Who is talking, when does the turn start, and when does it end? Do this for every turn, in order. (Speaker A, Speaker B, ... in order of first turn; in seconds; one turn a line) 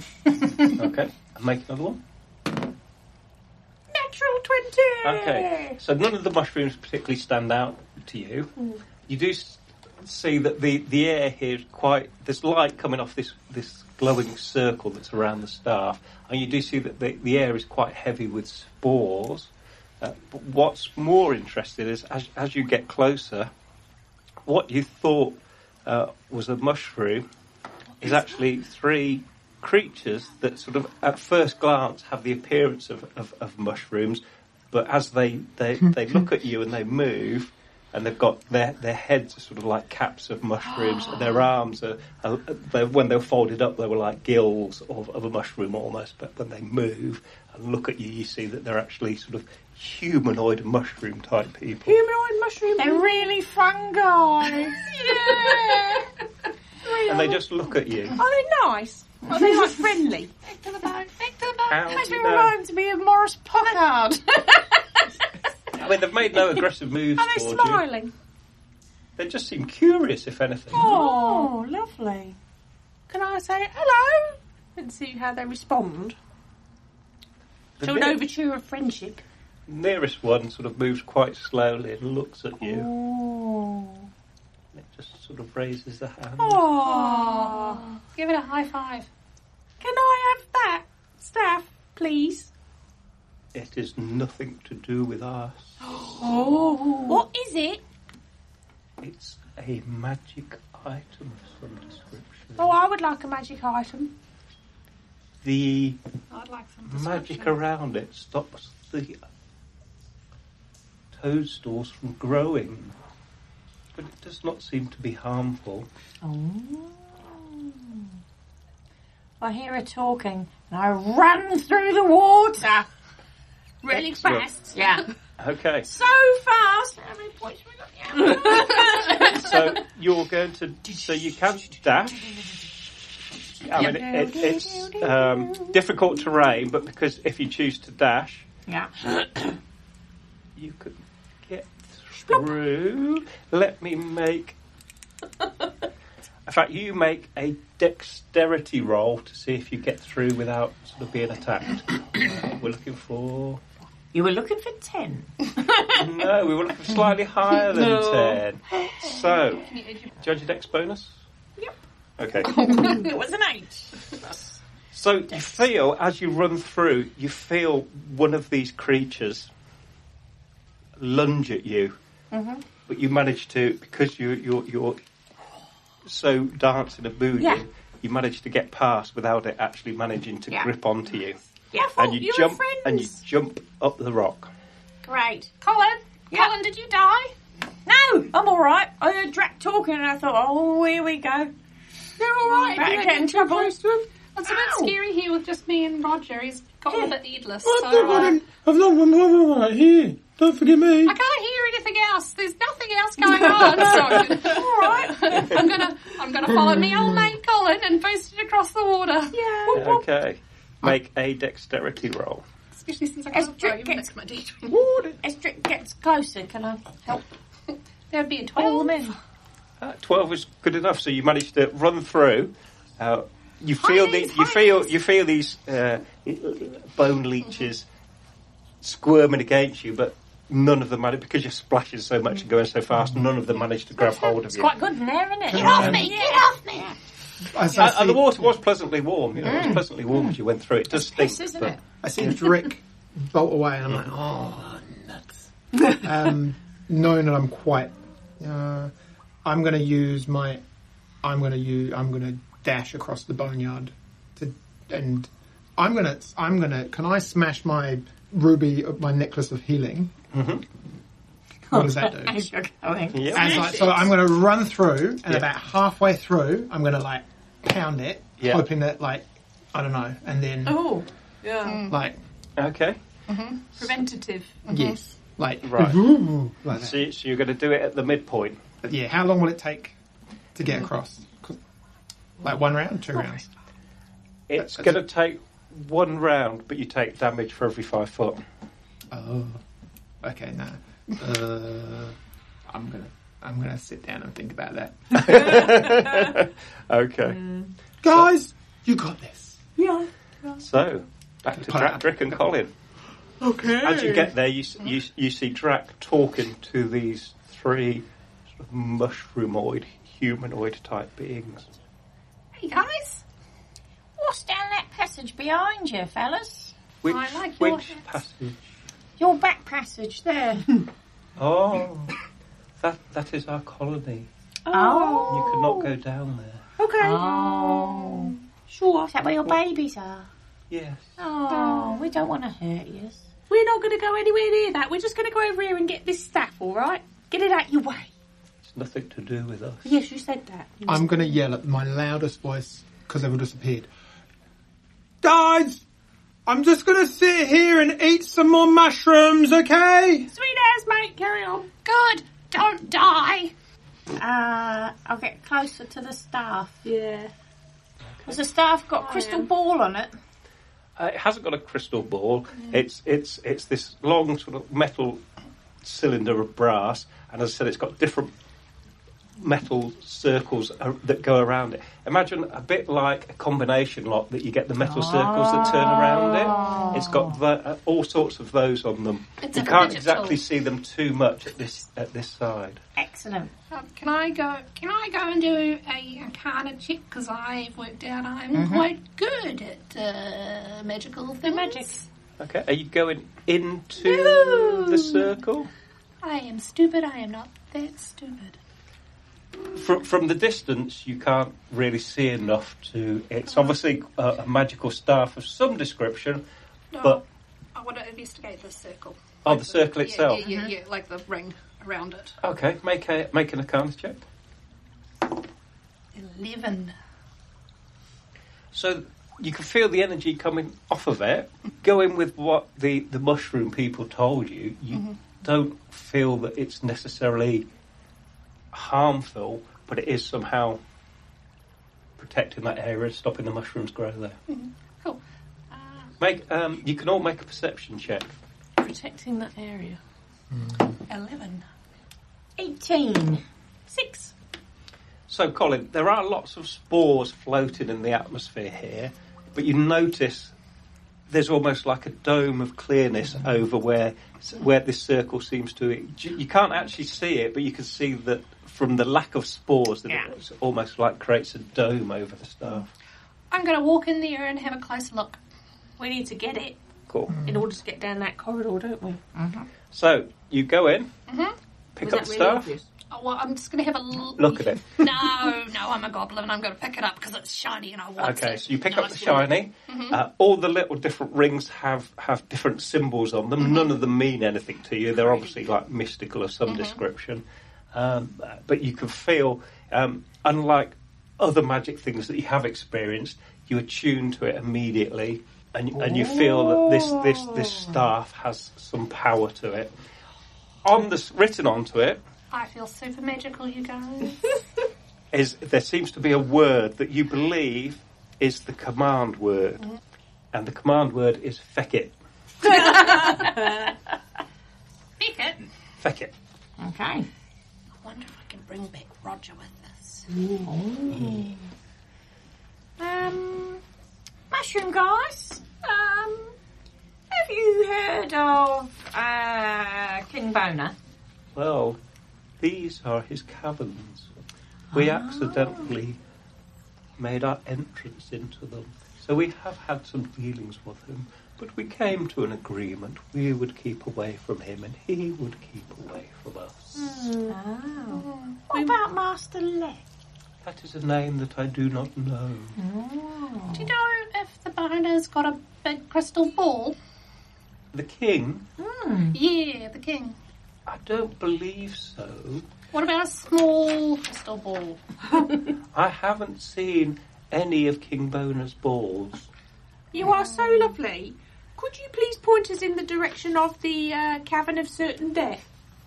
Speaker A: 0.6-2.0
Speaker B: 3.9-5.8
Speaker A: 5.0-8.5
Speaker A: 9.1-23.5
Speaker A: 24.4-27.2
Speaker A: 28.0-52.0
Speaker B: 51.9-53.3
Speaker C: 52.8-54.8
Speaker B: 54.5-56.1
Speaker B: 56.8-57.4
Speaker A: 57.0-58.2
Speaker B: 58.1-60.3
Speaker C: 59.3-59.7
Speaker D: 60.4-62.0
Speaker A: 61.7-62.6
Speaker C: 61.9-64.4
Speaker B: 62.0-62.7
Speaker A: 65.7-67.8
Speaker B: 67.2-68.1
Speaker A: 69.2-71.0
Speaker B: 70.7-72.3
Speaker C: 70.7-72.3
Speaker B: 73.1-76.2
Speaker A: 77.8-78.2
Speaker B: 77.8-79.2
Speaker A: 79.7-82.9
Speaker C: 82.6-84.0
Speaker A: 84.7-86.7
Speaker B: 86.4-87.8
Speaker D: 86.8-89.1
Speaker B: 89.8-92.5
Speaker A: 93.5-95.8
Speaker B: 96.0-97.8
Speaker C: 96.2-97.2
Speaker A: 99.0-102.8
Speaker B: 102.6-104.1
Speaker A: 105.4-106.0
Speaker D: 106.3-107.6
Speaker A: 106.9-109.2
Speaker A: 111.1-113.0
Speaker A: 114.0-115.9
Speaker C: 116.2-118.1
Speaker C: 119.4-122.9
Speaker B: 123.8-124.8
Speaker C: 124.7-125.1
Speaker A: 125.4-125.9
Speaker C: 125.8-129.6
Speaker A: 129.1-132.3
Speaker A: 133.6-138.5
Speaker C: 133.8-135.8
Speaker B: 133.8-134.7
Speaker C: 138.7-139.6
Speaker A: 140.6-144.6
Speaker A: 146.5-153.6
Speaker C: 154.1-156.3
Speaker A: 155.9-161.2
Speaker B: 157.7-158.4
Speaker D: 159.7-160.1
Speaker A: 162.2-162.8
Speaker C: 162.4-164.6
Speaker D: 162.5-163.1
Speaker A: 164.9-169.5
Speaker A: 171.0-172.0
Speaker C: 172.3-172.6
Speaker A: 172.9-175.0
Speaker A: 176.1-181.4
Speaker C: 181.7-182.0
Speaker B: 181.8-183.2
Speaker A: 182.0-184.5
Speaker C: 185.0-185.5
Speaker D: 185.6-187.3
Speaker C: 187.9-191.5
Speaker D: 192.2-193.7
Speaker C: 192.4-193.8
Speaker B: 192.5-193.6
Speaker D: 194.3-198.4
Speaker C: 194.5-194.9
Speaker E: 197.6-201.2
Speaker D: 201.1-209.7
Speaker B: 203.7-205.7
Speaker C: 204.5-205.4
Speaker B: 209.3-210.1
Speaker A: 209.7-212.4
Speaker D: 212.7-214.8
Speaker C: 213.3-214.1
Speaker C: 214.7-217.2
Speaker D: 218.1-219.2
Speaker C: 218.6-219.2
Speaker A: 219.8-227.9
Speaker D: 223.8-224.8
Speaker A: 228.8-234.8
Speaker B: 234.0-235.7
Speaker C: 234.7-237.0
Speaker E: 235.5-236.1
Speaker D: 235.5-236.9
Speaker A: 235.6-236.1
Speaker E: 237.4-238.5
Speaker A: 237.7-241.8
Speaker C: 239.4-240.4
Speaker C: 240.9-241.8
Speaker E: 242.0-248.9
Speaker E: 249.4-250.6
Speaker E: 251.2-260.1
Speaker A: 260.3-260.6
Speaker E: 261.7-262.5
Speaker C: 261.7-263.3
Speaker A: 263.1-263.9
Speaker B: 263.3-264.1
Speaker E: 263.3-270.9
Speaker B: 270.7-271.9
Speaker D: 271.6-271.9
Speaker E: 271.9-272.2
Speaker A: 272.6-273.0
Speaker D: 273.3-273.7
Speaker B: 273.7-274.6
Speaker D: 274.7-275.0
Speaker E: 274.7-277.1
Speaker A: 275.6-276.0
Speaker A: 276.7-278.6
Speaker E: 278.8-280.0
Speaker E: 280.6-281.6
Speaker E: 282.4-283.4
Speaker A: 284.5-288.4
Speaker E: 284.6-285.0
Speaker E: 289.1-289.6
Speaker E: 290.2-292.2
Speaker E: 292.7-295.9
Speaker A: 295.2-297.4
Speaker B: 297.3-297.7
Speaker E: 298.0-299.6
Speaker B: 299.8-300.6
Speaker A: 300.6-302.7
Speaker E: 301.5-302.1
Speaker B: 303.4-304.3
Speaker A: 303.8-308.1
Speaker A: 308.6-311.7
Speaker D: 312.6-313.2
Speaker C: 314.2-316.7
Speaker A: 317.0-318.7
Speaker D: 317.1-318.1
Speaker C: 319.2-320.8
Speaker A: 321.4-322.1
Speaker A: 322.8-324.3
Speaker B: 324.7-325.9
Speaker C: 324.7-325.7
Speaker A: 325.3-326.7
Speaker B: 326.8-329.1
Speaker C: 327.0-328.4
Speaker C: 329.1-330.3
Speaker A: 330.7-331.1
Speaker C: 331.2-333.2
Speaker B: 331.5-332.2
Speaker B: 333.5-338.1
Speaker A: 338.6-340.0
Speaker B: 339.9-341.4
Speaker E: 340.9-343.9
Speaker E: 345.2-345.8
Speaker E: 346.5-350.3
Speaker B: 350.3-351.7
Speaker D: 351.9-353.5
Speaker C: 354.2-356.9
Speaker B: 356.8-357.3
Speaker C: 358.3-360.1
Speaker B: 359.0-359.5
Speaker A: 361.0-365.2
Speaker A: 365.8-368.3
Speaker A: 369.4-382.8
Speaker C: 374.8-377.4
Speaker D: 379.4-380.4
Speaker C: 383.0-383.5
Speaker D: 383.7-392.1
Speaker C: 388.5-388.9
Speaker B: 391.5-391.9
Speaker A: 392.4-395.7
Speaker D: 394.3-394.8
Speaker D: 396.2-398.6
Speaker A: 399.8-406.4
Speaker D: 406.9-407.2
Speaker D: 407.8-412.4
Speaker A: 409.4-410.4
Speaker C: 410.4-410.7
Speaker A: 412.4-414.2
Speaker D: 416.1-416.9
Speaker A: 418.7-427.7
Speaker A: 428.7-430.8
Speaker A: 432.2-434.4
Speaker D: 434.5-435.2
Speaker D: 435.7-436.1
Speaker A: 436.2-438.3
Speaker B: 438.8-440.0
Speaker E: 440.5-440.9
Speaker D: 441.1-441.7
Speaker C: 442.6-443.4
Speaker B: 443.9-444.3
Speaker A: 445.3-450.5
Speaker A: 451.3-462.9
Speaker D: 463.5-465.4
Speaker B: 466.0-466.8
Speaker A: 467.1-467.4
Speaker E: 467.3-467.6
Speaker B: 467.4-469.2
Speaker C: 469.4-469.7
Speaker A: 469.9-471.1
Speaker D: 471.3-471.6
Speaker A: 472.0-472.8
Speaker B: 472.0-472.9
Speaker D: 473.1-480.2
Speaker A: 474.4-475.1
Speaker A: 478.2-499.9
Speaker D: 485.2-485.5
Speaker D: 486.7-487.0
Speaker C: 496.1-497.9
Speaker A: 500.8-502.2
Speaker D: 502.5-504.5
Speaker A: 505.3-509.9
Speaker A: 510.5-512.1
Speaker D: 512.8-513.3
Speaker D: 515.2-515.7
Speaker A: 516.0-516.3
Speaker C: 516.8-517.3
Speaker D: 518.0-520.3
Speaker C: 520.5-521.6
Speaker A: 521.1-521.5
Speaker C: 523.0-523.8
Speaker C: 524.5-526.5
Speaker C: 527.3-531.0
Speaker A: 531.5-532.0
Speaker A: 532.6-534.3
Speaker C: 534.9-535.9
Speaker A: 534.9-536.2
Speaker A: 537.2-547.2
Speaker C: 547.0-550.0
Speaker B: 547.1-547.5
Speaker D: 548.1-548.6
Speaker A: 550.6-552.8
Speaker C: 552.8-553.9
Speaker D: 553.7-557.0
Speaker A: 557.9-558.7
Speaker C: 558.8-559.4
Speaker D: 559.3-560.4
Speaker A: 560.9-562.7
Speaker D: 562.9-565.0
Speaker A: 565.9-569.5
Speaker B: 570.1-575.7